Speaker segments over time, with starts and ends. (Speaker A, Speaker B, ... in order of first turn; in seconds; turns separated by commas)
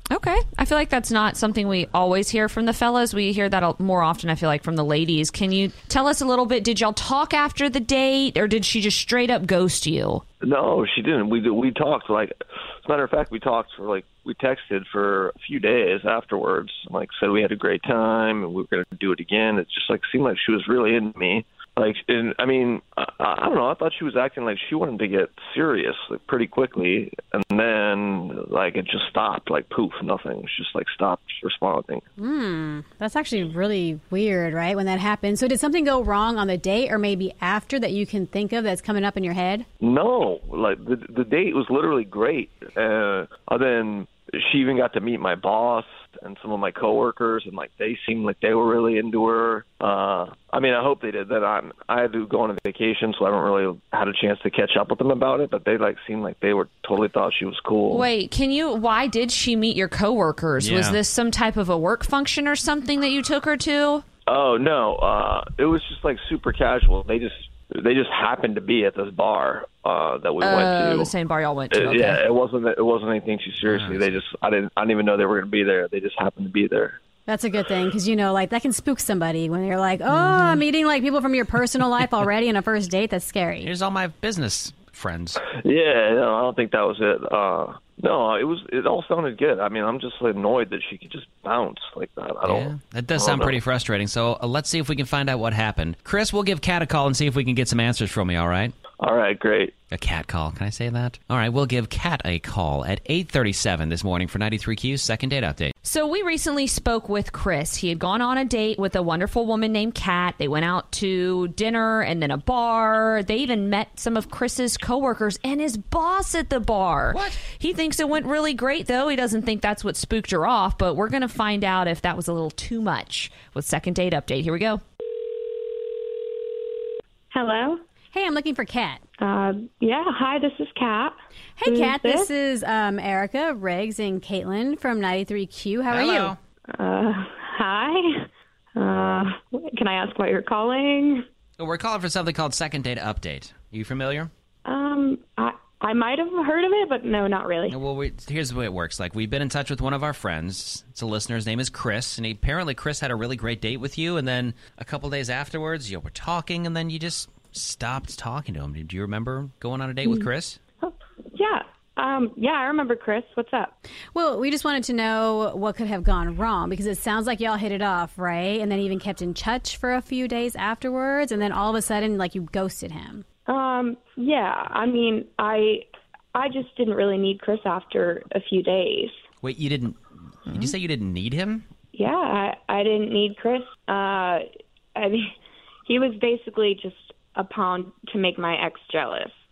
Speaker A: 0.1-10.2, Speaker B: 10.4-32.0, Speaker C: 32.2-39.6, Speaker B: 39.8-58.1, Speaker A: 57.9-64.0, Speaker D: 60.6-61.0, Speaker B: 64.3-71.1, Speaker A: 70.4-72.2, Speaker B: 71.7-77.0, Speaker D: 73.6-74.2, Speaker C: 77.3-83.7, Speaker A: 80.1-80.6, Speaker D: 83.6-85.4, Speaker B: 85.6-93.6, Speaker D: 92.5-98.7, Speaker B: 99.0-99.8, Speaker D: 99.9-105.7, Speaker A: 105.8-124.8, Speaker D: 117.1-117.4, Speaker E: 127.3-127.8, Speaker C: 128.1-129.0, Speaker E: 129.2-131.1, Speaker C: 131.6-136.3, Speaker E: 131.7-132.3, Speaker D: 135.9-136.4, Speaker E: 136.7-138.0, Speaker E: 138.8-141.2, Speaker D: 141.6-144.3, Speaker E: 144.7-147.8, Speaker D: 147.7-160.6, Speaker E: 160.8-163.8, Speaker C: 164.1-173.2, Speaker E: 173.5-179.1, Speaker D: 179.4-181.7, Speaker A: 180.5-180.7, Speaker E: 181.9-184.4, Speaker E: 184.9-185.2, Speaker E: 185.9-189.3